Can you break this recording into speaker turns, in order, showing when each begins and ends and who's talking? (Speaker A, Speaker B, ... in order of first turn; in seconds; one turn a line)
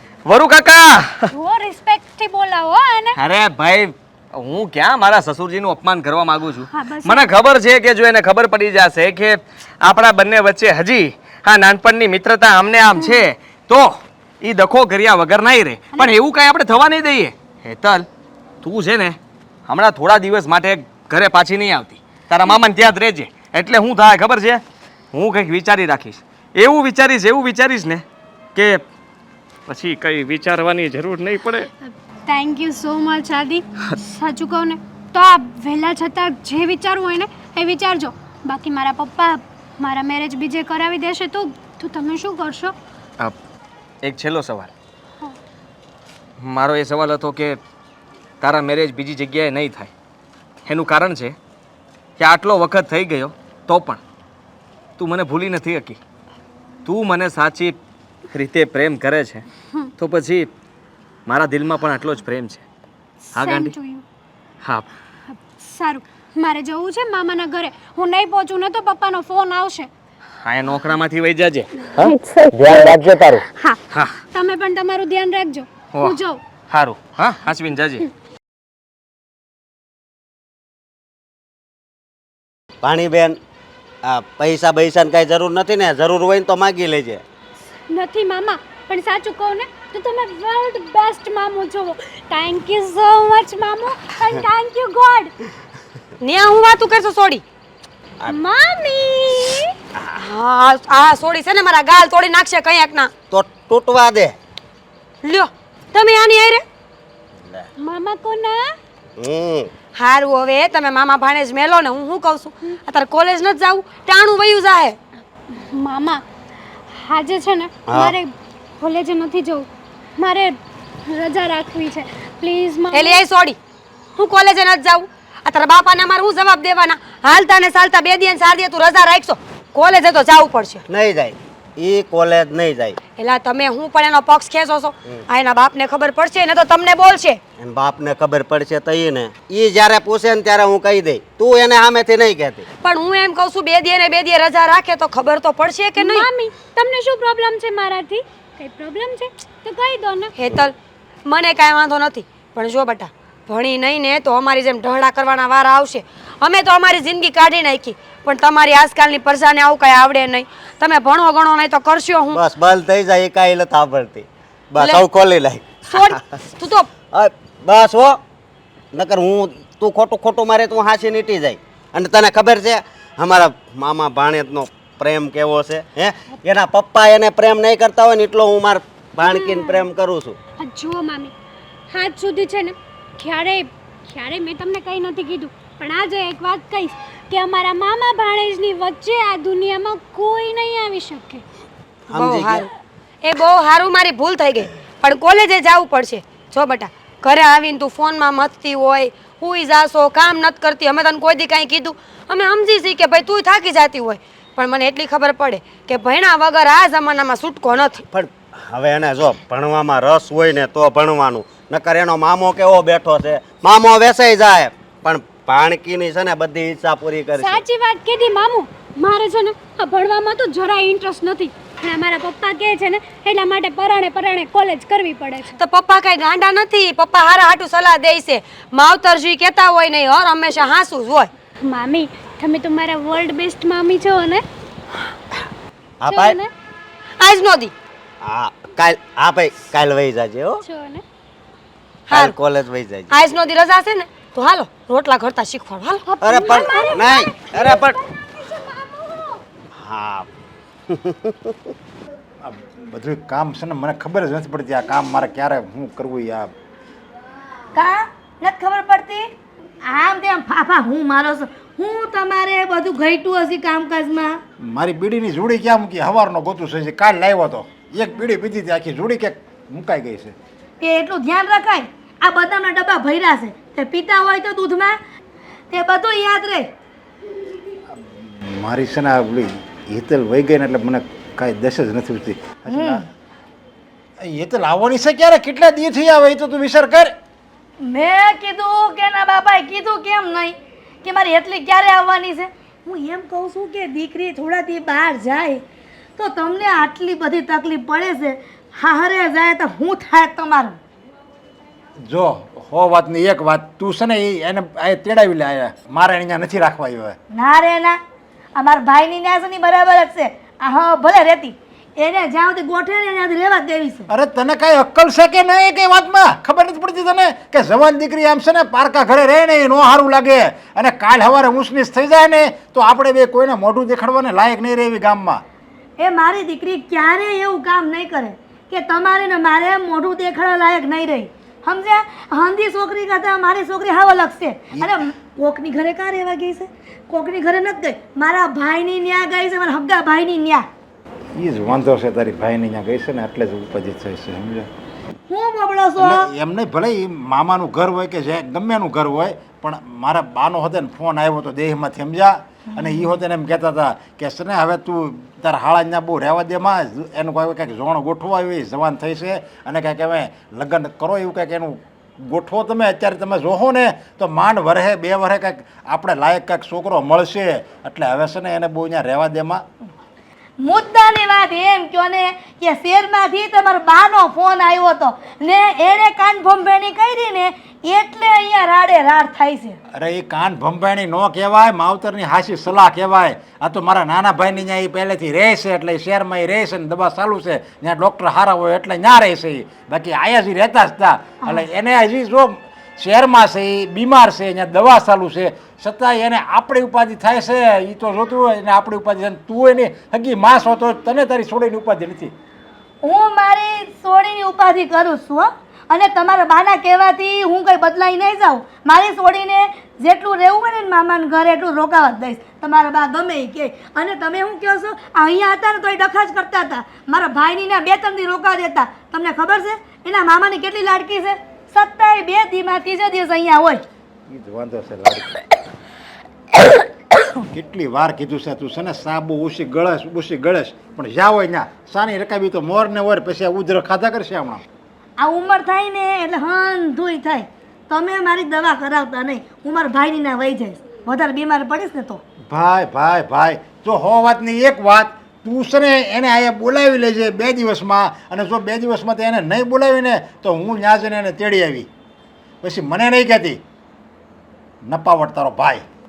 Speaker A: 0.3-1.3
Speaker B: 1.3-3.2
Speaker A: 3.1-18.1
Speaker B: 6.7-7.3
Speaker A: 18.6-28.0
Speaker A: 28.6-28.8
Speaker A: 29.7-31.7
Speaker B: 32.3-42.7
Speaker A: 44.0-44.7
Speaker A: 46.4-47.6
Speaker A: 48.4-49.9
Speaker A: 50.7-51.4
Speaker A: 52.2-54.0
Speaker A: 55.0-56.0
Speaker A: 56.9-57.8
Speaker A: 58.3-59.5
Speaker A: 60.0-60.5
Speaker A: 61.3-62.6
Speaker B: 63.3-64.0
Speaker A: 63.3-63.7
Speaker B: 65.3-69.9
Speaker A: 70.4-74.2
Speaker C: 72.8-73.1
Speaker B: 73.5-73.8
Speaker B: 74.3-76.4
Speaker A: 75.9-76.2
Speaker A: 76.7-78.1
Speaker C: 82.8-83.4
Speaker C: 84.0-87.2
Speaker B: 87.9-95.3
Speaker D: 96.2-97.4
Speaker B: 98.3-99.7
Speaker D: 100.2-103.1
Speaker C: 103.3-104.4
Speaker D: 105.2-106.7
Speaker B: 107.8-108.6
Speaker C: 109.2-109.7
Speaker D: 110.0-115.0
Speaker B: 115.5-116.2
Speaker B: 117.0-119.7
Speaker C: 117.9-118.2
Speaker B: 120.2-120.5
Speaker B: 121.1-123.2
Speaker D: 122.9-123.6
Speaker D: 124.2-130.8
Speaker C: 130.9-133.0
Speaker D: 133.2-137.4
Speaker C: 137.6-142.7
Speaker D: 142.8-146.3
Speaker B: 146.0-150.3
Speaker D: 150.3-162.4
Speaker C: 162.3-166.2
Speaker D: 164.8-165.1
Speaker D: 165.9-166.9
Speaker C: 167.1-168.2
Speaker C: 168.9-180.4
Speaker B: 179.2-179.8
Speaker B: 180.6-181.3
Speaker B: 181.9-191.4
Speaker C: 192.1-192.7
Speaker D: 192.2-192.7
Speaker D: 193.2-208.0
Speaker C: 208.1-217.6
Speaker B: 217.4-225.6
Speaker D: 225.5-231.3
Speaker B: 231.7-234.4
Speaker C: 236.0-236.4
Speaker B: 236.1-236.5
Speaker D: 237.2-237.7
Speaker C: 238.2-240.6
Speaker B: 240.7-241.0
Speaker D: 242.1-242.3
Speaker C: 242.1-243.2
Speaker D: 243.1-246.1
Speaker C: 246.2-248.0
Speaker B: 246.2-249.4
Speaker D: 246.6-247.3
Speaker C: 249.8-250.3
Speaker C: 250.9-251.3
Speaker E: 252.4-256.5
Speaker F: 257.8-259.3
Speaker F: 259.9-264.4
Speaker E: 264.6-270.4
Speaker F: 270.8-274.9
Speaker F: 275.7-276.6
Speaker E: 278.3-283.0
Speaker E: 284.2-287.1
Speaker F: 287.9-295.6
Speaker F: 296.2-300.8
Speaker E: 302.1-307.2
Speaker F: 307.3-308.0
Speaker F: 308.6-314.0
Speaker E: 314.1-325.4
Speaker F: 326.0-340.6
Speaker E: 341.4-344.7
Speaker F: 345.3-346.3
Speaker E: 346.0-369.6
Speaker F: 352.8-353.1
Speaker F: 370.6-379.8
Speaker E: 380.0-402.3
Speaker F: 403.0-423.8
Speaker E: 424.3-425.4
Speaker E: 427.5-434.6
Speaker F: 435.2-442.2
Speaker E: 442.5-451.9
Speaker E: 452.6-453.6
Speaker E: 454.9-455.8